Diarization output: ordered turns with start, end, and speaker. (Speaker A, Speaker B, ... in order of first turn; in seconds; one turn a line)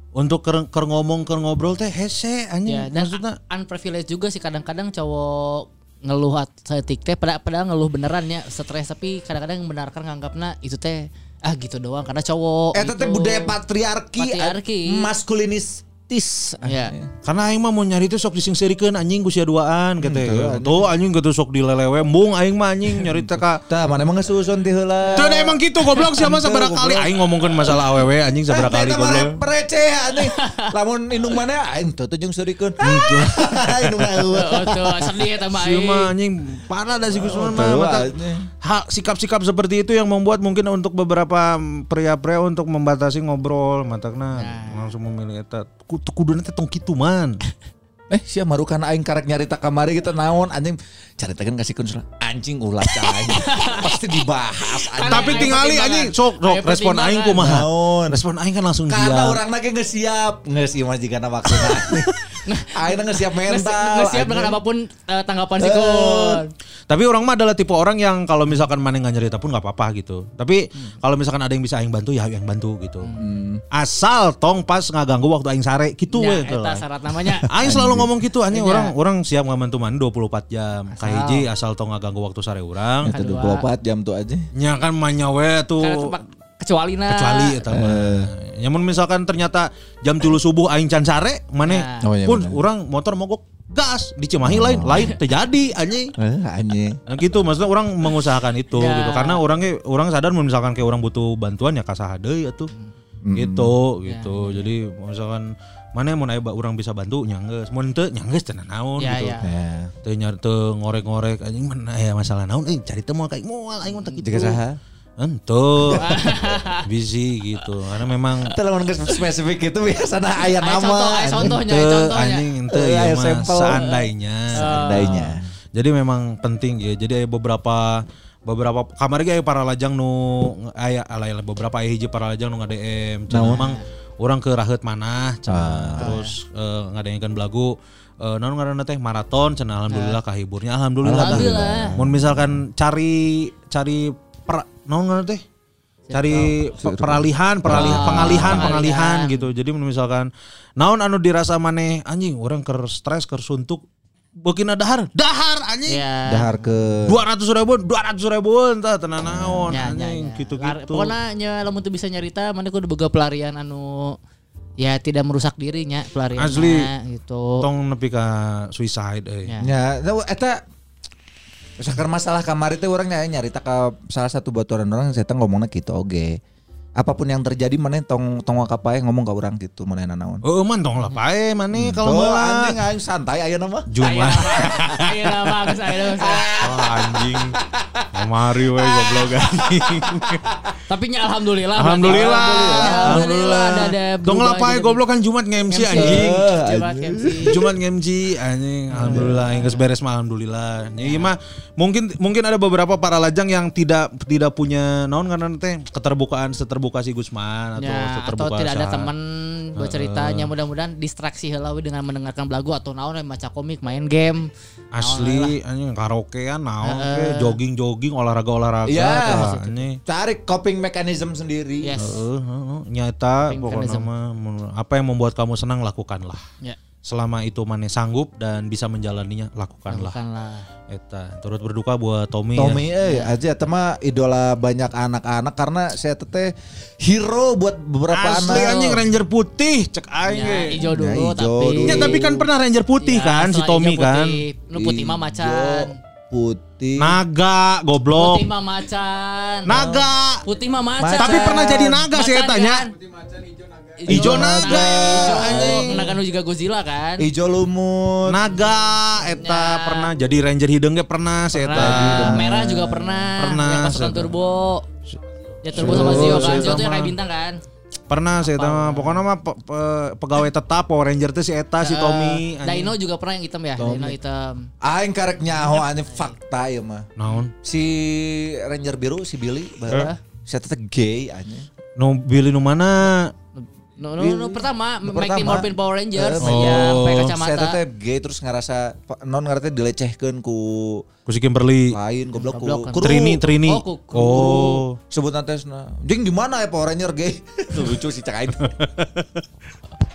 Speaker A: 0.1-3.4
Speaker B: 2.7-13.5
Speaker C: 12.7-17.1
Speaker B: 14.2-15.1
Speaker B: 16.6-16.9
Speaker A: 17.2-23.6
Speaker C: 20.0-20.9
Speaker C: 23.1-27.1
Speaker A: 25.1-29.3
Speaker C: 28.5-35.1
Speaker B: 30.2-30.7
Speaker A: 32.8-34.1
Speaker B: 34.3-36.1
Speaker A: 35.5-47.4
Speaker C: 37.1-38.4
Speaker B: 44.3-44.9
Speaker C: 48.1-55.5
Speaker B: 53.0-54.0
Speaker B: 54.8-57.4
Speaker A: 55.1-59.4
Speaker C: 57.4-58.2
Speaker C: 58.9-62.1
Speaker B: 62.4-66.5
Speaker C: 62.7-64.6
Speaker C: 65.6-66.4
Speaker A: 66.9-73.1
Speaker C: 73.2-73.6
Speaker A: 73.7-76.8
Speaker B: 76.1-77.5
Speaker A: 77.5-83.1
Speaker C: 77.6-78.1
Speaker B: 78.5-78.9
Speaker B: 80.9-81.5
Speaker C: 83.0-84.5
Speaker B: 83.1-83.6
Speaker A: 84.5-86.1
Speaker B: 85.8-87.6
Speaker A: 87.1-96.1
Speaker C: 87.7-88.3
Speaker B: 91.6-92.0
Speaker C: 92.0-92.6
Speaker C: 94.4-95.1
Speaker C: 96.2-97.0
Speaker A: 97.0-102.7
Speaker B: 98.8-99.4
Speaker C: 103.2-103.7
Speaker A: 103.3-109.3
Speaker B: 104.1-104.7
Speaker B: 109.0-109.5
Speaker C: 109.4-109.9
Speaker A: 110.0-114.6
Speaker B: 113.9-114.5
Speaker C: 114.2-114.8
Speaker A: 115.2-118.5
Speaker B: 115.9-116.8
Speaker C: 118.5-121.6
Speaker B: 120.6-122.4
Speaker A: 121.4-145.4
Speaker C: 122.7-123.9
Speaker B: 123.7-125.3
Speaker C: 124.5-125.5
Speaker C: 133.3-133.6
Speaker B: 133.4-133.8
Speaker C: 135.5-136.1
Speaker B: 136.0-136.3
Speaker B: 139.9-140.2
Speaker C: 141.0-142.3
Speaker B: 141.1-141.9
Speaker B: 146.1-146.4
Speaker A: 146.1-153.8
Speaker C: 146.3-148.8
Speaker B: 147.7-149.5
Speaker A: 154.4-156.0
Speaker B: 155.9-156.4
Speaker C: 156.2-157.2
Speaker A: 157.1-161.1
Speaker C: 159.2-159.8
Speaker B: 159.7-164.2
Speaker B: 164.8-167.6
Speaker A: 166.3-166.9
Speaker A: 167.6-169.5
Speaker C: 169.6-170.6
Speaker C: 171.8-176.3
Speaker C: 177.0-180.4
Speaker A: 180.4-182.8
Speaker C: 181.7-183.9
Speaker A: 183.9-185.3
Speaker B: 184.0-186.5
Speaker C: 186.1-188.1
Speaker A: 186.6-187.6
Speaker A: 188.1-190.4
Speaker C: 188.8-190.4
Speaker B: 190.9-195.0
Speaker A: 191.8-196.4
Speaker C: 192.1-193.3
Speaker B: 195.7-197.5
Speaker C: 195.9-197.6
Speaker A: 197.4-209.1
Speaker B: 198.9-199.8
Speaker C: 199.0-199.7
Speaker B: 201.0-201.3
Speaker B: 207.8-215.5
Speaker A: 209.8-210.5
Speaker A: 214.9-220.0
Speaker B: 216.8-217.6
Speaker C: 218.9-219.5
Speaker B: 219.0-219.8
Speaker C: 220.1-222.0
Speaker B: 221.8-222.2
Speaker A: 221.9-226.4
Speaker B: 223.5-224.1
Speaker A: 227.0-230.1
Speaker B: 229.9-230.7
Speaker A: 230.9-232.8
Speaker C: 232.5-239.0
Speaker B: 233.0-233.3
Speaker A: 238.1-240.8
Speaker B: 238.5-238.9
Speaker B: 240.2-242.2
Speaker C: 240.7-242.5
Speaker A: 241.8-244.4
Speaker B: 243.0-246.0
Speaker C: 244.7-247.2
Speaker A: 247.0-248.4
Speaker B: 248.1-252.9
Speaker A: 249.7-250.4
Speaker C: 251.0-252.0
Speaker A: 251.2-256.1
Speaker B: 254.0-257.2
Speaker C: 254.1-256.0
Speaker C: 257.2-258.4
Speaker A: 258.2-264.3
Speaker B: 259.4-260.1
Speaker B: 261.5-264.9
Speaker C: 261.7-263.2
Speaker B: 265.6-267.6
Speaker A: 265.7-267.1
Speaker C: 265.7-266.8
Speaker A: 268.1-272.9
Speaker B: 268.4-269.2
Speaker B: 271.8-274.7
Speaker C: 273.8-274.2
Speaker C: 274.8-277.1
Speaker A: 277.2-277.5
Speaker C: 277.6-281.6
Speaker B: 279.9-280.2
Speaker A: 282.0-283.3
Speaker B: 283.6-287.8
Speaker C: 284.2-291.1
Speaker A: 286.4-287.3
Speaker A: 291.3-292.0
Speaker C: 291.9-293.4
Speaker B: 292.4-294.8
Speaker A: 293.0-295.0
Speaker C: 295.1-298.7
Speaker A: 298.6-299.4